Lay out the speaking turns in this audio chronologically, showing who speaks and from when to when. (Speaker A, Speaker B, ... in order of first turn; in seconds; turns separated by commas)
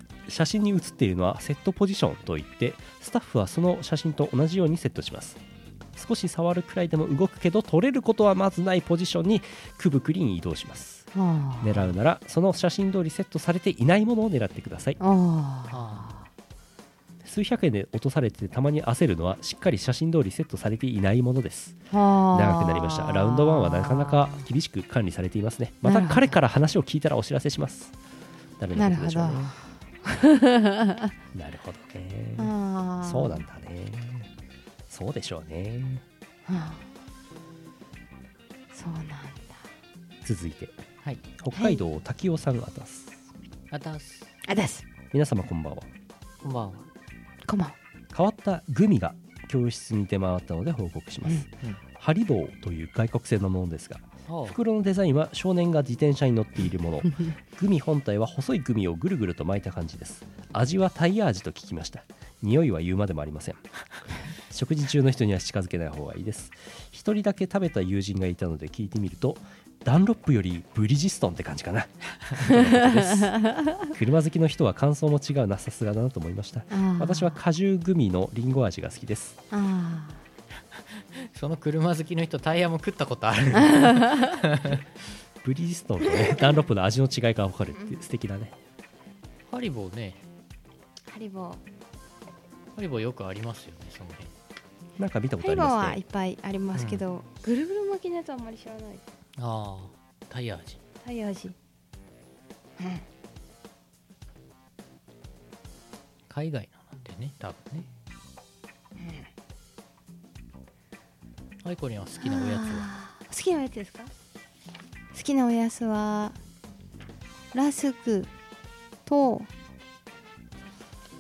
Speaker A: 0.3-5.4, Speaker A: 6.0-11.1, Speaker B: 11.1-11.7, Speaker A: 11.6-15.0, Speaker B: 15.0-16.2, Speaker C: 15.7-16.1, Speaker A: 17.2-27.9, Speaker B: 21.9-24.4, Speaker B: 25.8-26.4, Speaker A: 28.6-29.5, Speaker B: 28.8-31.1, Speaker A: 31.3-32.5, Speaker B: 32.4-33.4, Speaker A: 33.0-34.3, Speaker A: 34.9-36.0, Speaker B: 36.5-36.8, Speaker B: 38.7-39.6, Speaker A: 40.2-40.8, Speaker A: 41.4-43.2, Speaker B: 41.5-41.8, Speaker C: 43.7-44.3, Speaker B: 44.5-44.8, Speaker A: 45.1-45.9, Speaker C: 46.4-46.9, Speaker B: 47.5-47.8, Speaker A: 48.1-63.6, Speaker C: 54.3-54.6, Speaker A: 64.5-79.4, Speaker B: 76.7-77.4, Speaker B: 79.5-80.2, Speaker C: 81.3-84.8, Speaker A: 85.4-88.5, Speaker C: 89.5-90.2, Speaker B: 91.1-91.6, Speaker C: 92.8-94.3, Speaker A: 95.0-96.0, Speaker B: 95.4-99.0, Speaker C: 96.8-97.0, Speaker C: 99.4-100.8, Speaker B: 101.0-101.5, Speaker B: 102.8-103.0, Speaker C: 106.3-107.9, Speaker B: 109.0-109.3, Speaker C: 111.6-112.9, Speaker B: 112.2-114.1, Speaker B: 115.1-116.4, Speaker B: 117.5-118.3, Speaker B: 119.1-119.5